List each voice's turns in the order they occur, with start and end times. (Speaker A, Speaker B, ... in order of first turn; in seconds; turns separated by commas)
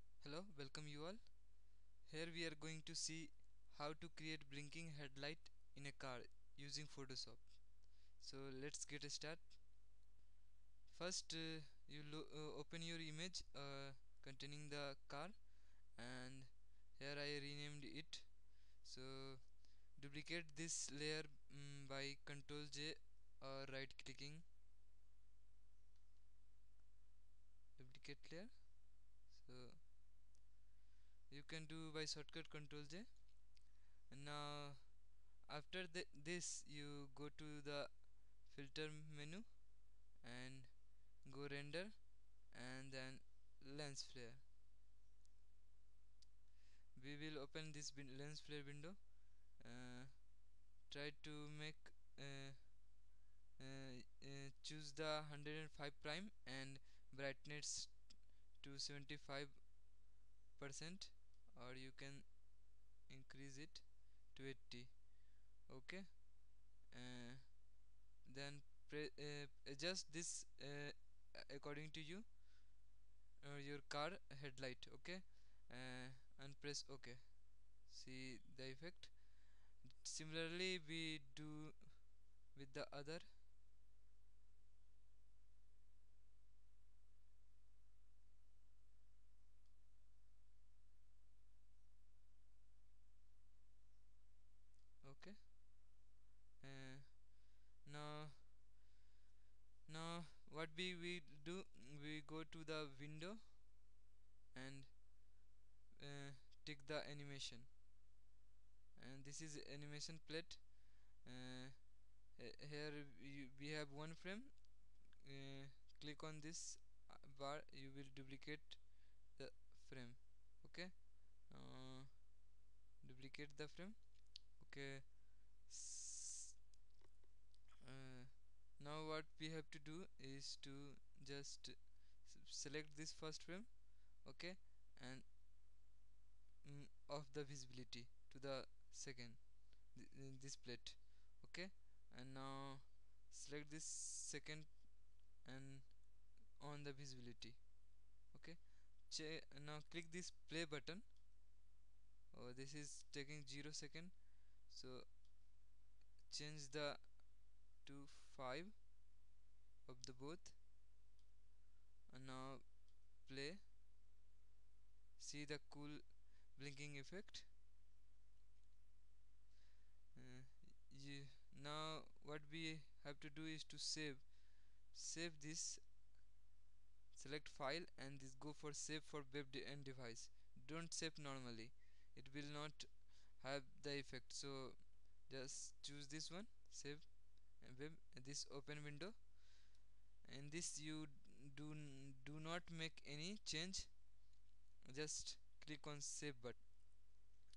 Speaker A: 0.2-9.6, Speaker A: 10.9-24.5, Speaker A: 27.8-29.9, Speaker A: 31.3-44.5, Speaker A: 47.0-52.9, Speaker A: 53.6-60.0, Speaker A: 60.5-72.4, Speaker A: 73.4-83.3, Speaker A: 95.0-95.6, Speaker A: 96.6-98.5, Speaker A: 99.9-103.7, Speaker A: 104.5-105.4, Speaker A: 106.0-107.7, Speaker A: 109.0-122.4, Speaker A: 123.0-126.5, Speaker A: 127.8-135.3, Speaker A: 136.6-151.2, Speaker A: 152.3-155.3, Speaker A: 156.3-158.9, Speaker A: 159.8-160.6, Speaker A: 162.1-163.7, Speaker A: 165.2-167.5, Speaker A: 170.2-175.9, Speaker A: 177.1-189.4, Speaker A: 190.2-194.2, Speaker A: 194.9-196.6